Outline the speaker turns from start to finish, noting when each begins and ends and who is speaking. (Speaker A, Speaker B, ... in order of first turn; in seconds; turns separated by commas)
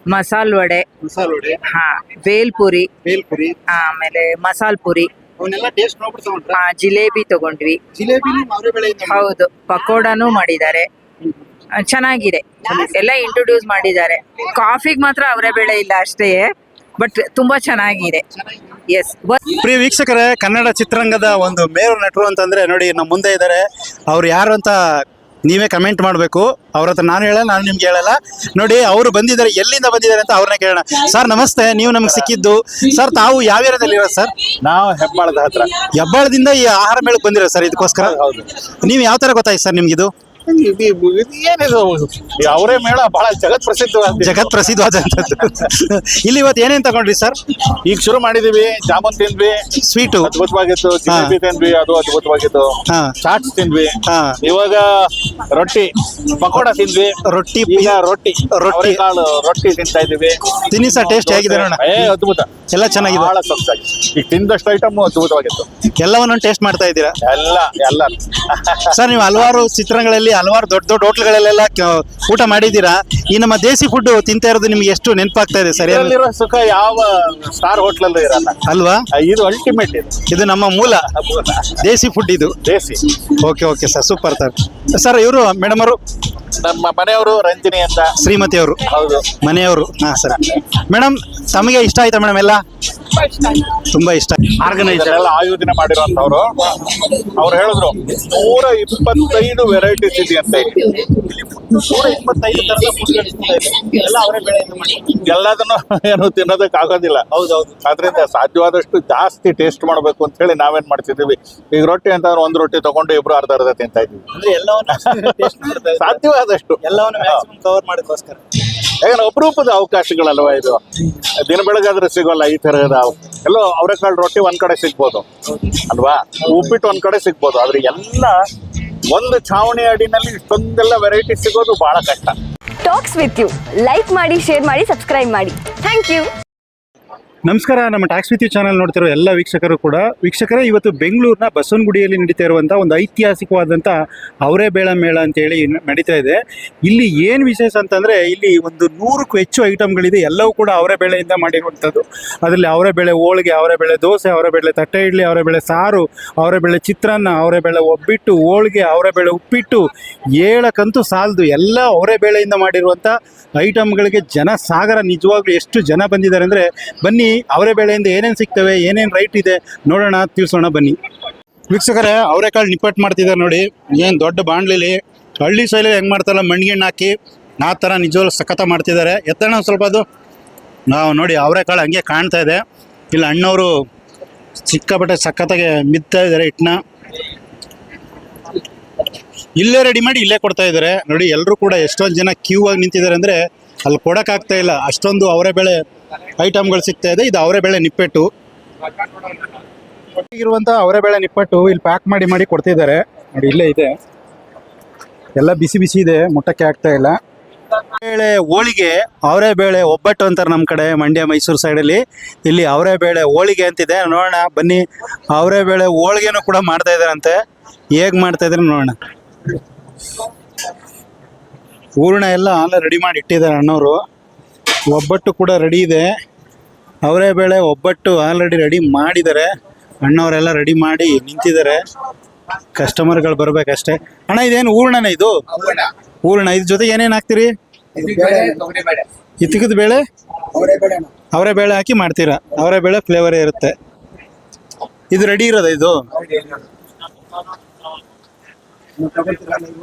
Speaker A: 0.1-0.8, Speaker B: 1.0-1.6, Speaker A: 1.7-2.9, Speaker B: 3.0-3.6, Speaker A: 3.7-5.1, Speaker B: 5.4-6.6, Speaker A: 6.5-7.8, Speaker B: 7.9-9.3, Speaker A: 9.1-10.9, Speaker A: 11.8-18.2, Speaker A: 18.9-19.4, Speaker B: 19.5-34.3, Speaker C: 34.6-35.7, Speaker B: 36.0-38.2, Speaker C: 38.0-38.5, Speaker B: 38.8-40.1, Speaker C: 40.5-44.6, Speaker B: 44.2-47.4, Speaker C: 47.8-49.6, Speaker B: 49.8-50.3, Speaker C: 50.2-57.1, Speaker B: 51.1-51.4, Speaker B: 52.9-53.2, Speaker B: 54.1-54.4, Speaker B: 57.2-59.0, Speaker C: 57.7-65.7, Speaker B: 60.7-62.1, Speaker B: 62.7-63.3, Speaker B: 66.0-67.2, Speaker C: 67.2-69.0, Speaker B: 68.9-76.2, Speaker C: 75.8-78.6, Speaker B: 78.7-79.0, Speaker C: 79.1-80.2, Speaker B: 80.3-81.1, Speaker C: 81.2-81.7, Speaker B: 81.8-82.6, Speaker C: 82.6-83.0, Speaker B: 83.3-86.0, Speaker C: 86.6-88.2, Speaker B: 88.2-88.9, Speaker C: 88.9-89.3, Speaker B: 89.4-92.6, Speaker B: 93.8-95.3, Speaker C: 94.7-96.8, Speaker C: 97.3-101.8, Speaker B: 101.7-105.2, Speaker C: 105.2-107.3, Speaker B: 107.3-107.8, Speaker C: 107.8-114.2, Speaker B: 114.3-116.3, Speaker C: 115.0-117.4, Speaker B: 116.8-118.4, Speaker C: 119.0-120.8, Speaker C: 121.4-128.4, Speaker C: 129.1-132.4, Speaker D: 132.8-136.3, Speaker B: 137.5-159.9, Speaker B: 160.4-171.0, Speaker B: 171.7-180.1, Speaker B: 180.9-183.7, Speaker B: 184.7-186.8, Speaker B: 189.6-195.8, Speaker B: 196.4-198.3, Speaker B: 200.3-203.9, Speaker B: 205.4-207.2, Speaker B: 208.0-217.4, Speaker B: 218.0-219.0, Speaker B: 222.0-224.0, Speaker B: 224.9-226.1, Speaker B: 227.1-229.5, Speaker B: 230.0-231.8, Speaker B: 232.8-235.6, Speaker B: 236.2-238.6, Speaker B: 239.4-240.0, Speaker B: 241.2-243.8, Speaker B: 245.1-246.1